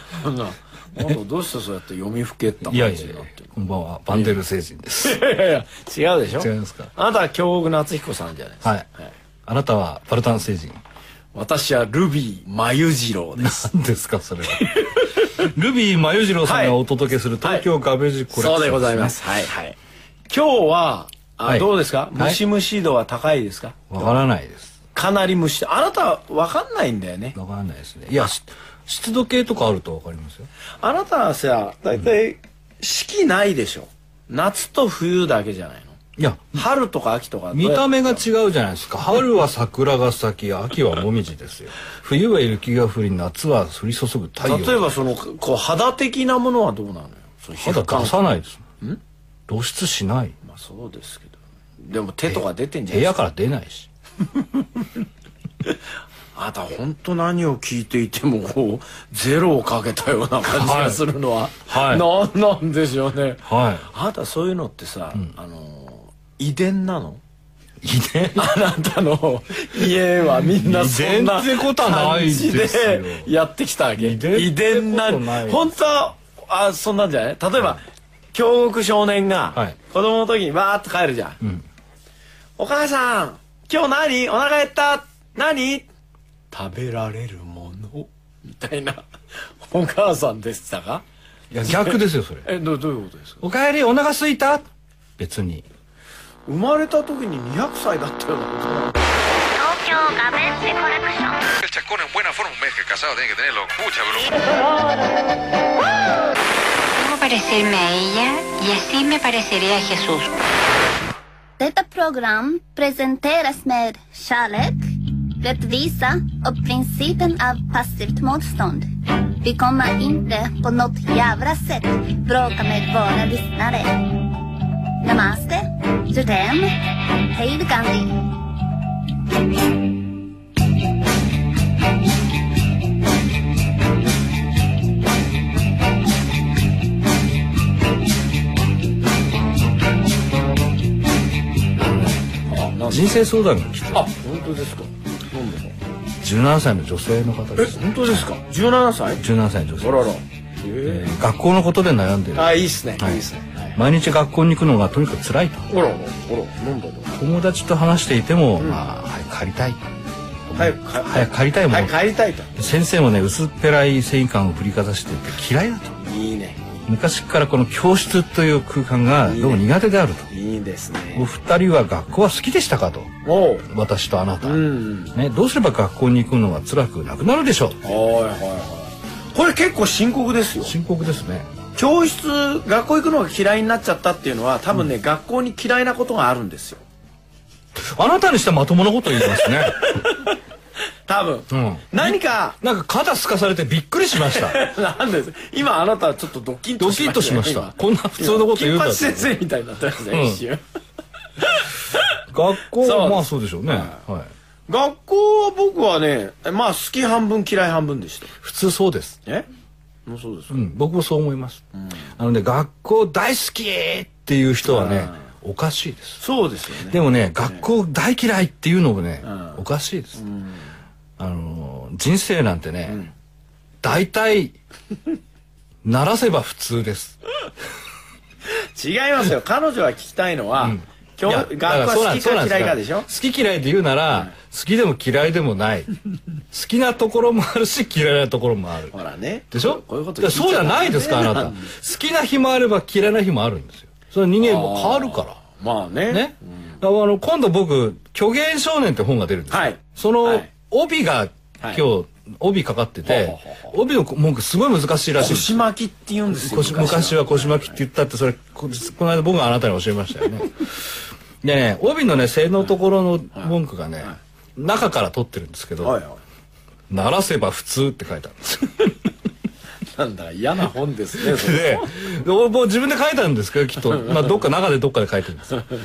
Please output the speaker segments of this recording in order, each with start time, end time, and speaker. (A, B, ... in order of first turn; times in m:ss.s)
0:00.1-0:03.6 A
0:02.6-0:05.2 B
0:04.1-0:04.4 A
0:05.0-0:09.1 A
0:06.4-0:06.9 B
0:09.5-0:10.8 B
0:11.3-0:13.7 A
0:13.4-0:19.2 B
0:14.5-0:15.4 A
0:16.4-0:16.8 A
0:18.3-0:19.8 A
0:20.3-0:24.2 A
0:21.4-0:22.4 B
0:23.9-0:24.7 B
0:24.9-0:27.4 A
0:27.3-0:30.5 B
0:30.8-0:36.0 A
0:36.2-0:36.6 B
0:36.6-0:38.2 A
0:37.5-0:44.9 B
0:44.4-0:48.2 A
0:47.6-0:48.6 B
0:49.5-0:50.3 B
0:50.4-0:53.2 A
0:52.3-0:53.9 B
0:56.3-1:07.2 A
1:00.5-1:01.0 B
1:01.7-1:02.0 B
1:03.4-1:03.9 B
1:07.8-1:08.5 B
1:08.4-1:17.8 A
1:10.5-1:13.3 B
1:14.0-1:15.7 B
1:18.3-1:21.4 A
1:22.6-1:25.8 A
1:26.5-1:29.0 A
1:29.6-1:31.0 A
1:31.5-1:32.5 B
1:31.6-1:33.4 A
1:33.4-1:34.6 B
1:35.2-1:35.6 B
1:36.4-1:39.2 A
1:39.5-1:41.4 C
1:41.6-1:44.6 D
1:46.9-1:50.3 E
1:51.6-1:58.9 C
1:59.4-2:04.2 C
2:05.0-2:08.3 C
2:21.8-2:22.2 B
2:22.5-2:23.2 A
2:22.9-2:24.1 B
2:23.9-2:25.7 A
2:26.2-2:28.2 B
2:27.6-2:29.3 A
2:29.2-2:30.0 B
2:29.8-2:31.1 A
2:30.8-2:33.2 B
2:32.3-2:33.8 A
2:33.7-2:35.6 B
2:35.7-2:37.2 A
2:37.2-2:39.8 B
2:38.6-2:38.8 A
2:40.5-2:42.0 B
2:40.5-2:42.5 A
2:42.6-2:46.0 B
2:46.0-2:46.6 A
2:46.8-2:50.3 B
2:49.2-2:49.6 A
2:50.3-2:51.3 A
2:51.1-2:53.1 B
2:53.2-2:53.6 A
2:53.7-2:57.8 B
2:54.4-2:55.1 A
2:57.8-3:00.7 A
3:00.6-3:01.5 B
3:01.7-3:06.8 A
3:07.9-3:09.8 B
3:09.2-3:10.4 A
3:11.1-3:12.6 A
3:11.5-3:14.6 B
3:14.2-3:20.6 A
3:16.8-3:19.4 B
3:20.1-3:20.4 B
3:21.4-3:22.2 A
3:22.3-3:24.3 B
3:22.8-3:24.0 A
3:24.7-3:28.4 A
3:28.4-3:29.2 B
3:30.0-3:30.6 A
3:30.5-3:31.6 B
3:31.7-3:32.0 A
3:32.2-3:36.2 B
3:34.6-3:35.2 A
3:36.2-3:37.6 A
3:36.9-3:40.2 B
3:39.2-3:39.6 A
3:40.2-3:40.6 A
3:41.2-3:43.0 B
3:43.8-3:44.6 B
3:45.8-3:47.2 B
3:48.7-3:53.1 A
3:50.6-3:55.9 B
3:56.5-3:58.9 B
3:58.9-4:01.6 A
3:59.5-4:05.4 B
4:04.4-4:06.4 A
4:06.1-4:15.6 B
4:09.5-4:10.5 A
4:13.0-4:13.7 A
4:15.2-4:17.7 A
4:16.4-4:26.0 B
4:23.3-4:24.1 A
4:25.8-4:26.2 A
4:26.9-4:29.1 B
4:30.0-4:31.9 A
4:31.2-4:35.6 B